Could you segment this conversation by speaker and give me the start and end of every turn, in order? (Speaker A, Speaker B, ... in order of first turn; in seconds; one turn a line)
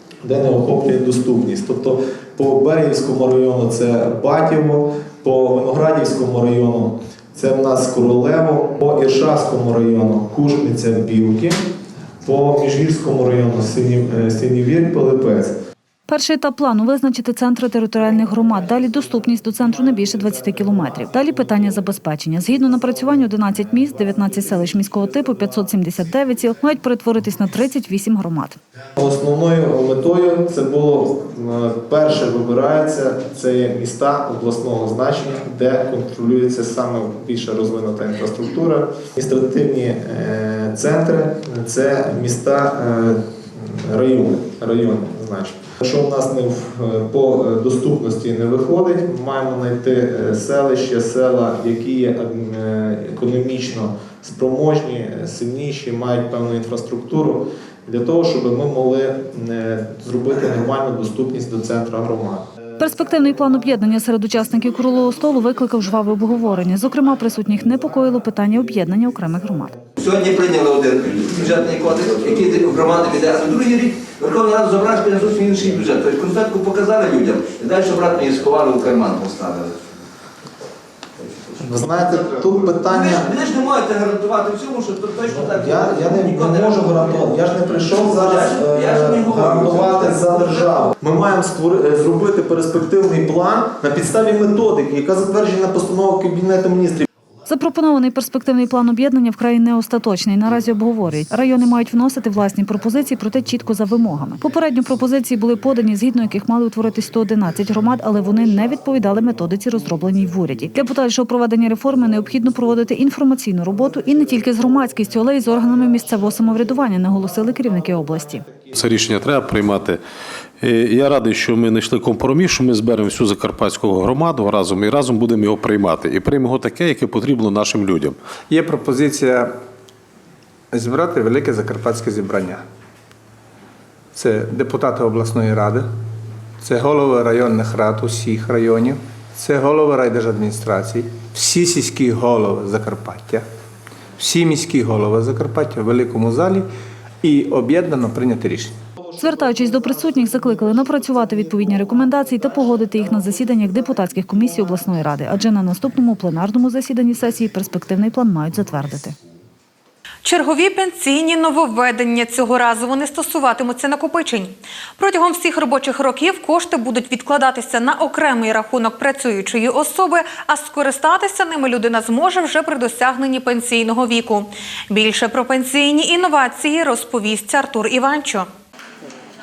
Speaker A: 0.2-11.6
Speaker A: 12.2-15.5
Speaker B: 16.1-28.6
Speaker A: 20.0-21.1
Speaker A: 24.0-25.4
Speaker A: 29.0-62.5
Speaker B: 62.8-69.7
Speaker C: 70.0-79.7
Speaker A: 81.6-83.3
Speaker C: 81.8-90.9
Speaker A: 85.2-97.0
Speaker B: 97.5-118.5
Speaker D: 118.7-120.0
Speaker D: 120.6-128.2
Speaker E: 128.5-129.5
Speaker E: 130.7-132.6
Speaker E: 134.1-135.9
Speaker E: 136.6-143.4
Speaker E: 144.2-146.7
Speaker E: 147.2-148.8
Speaker B: 149.2-159.2
Speaker F: 160.2-178.5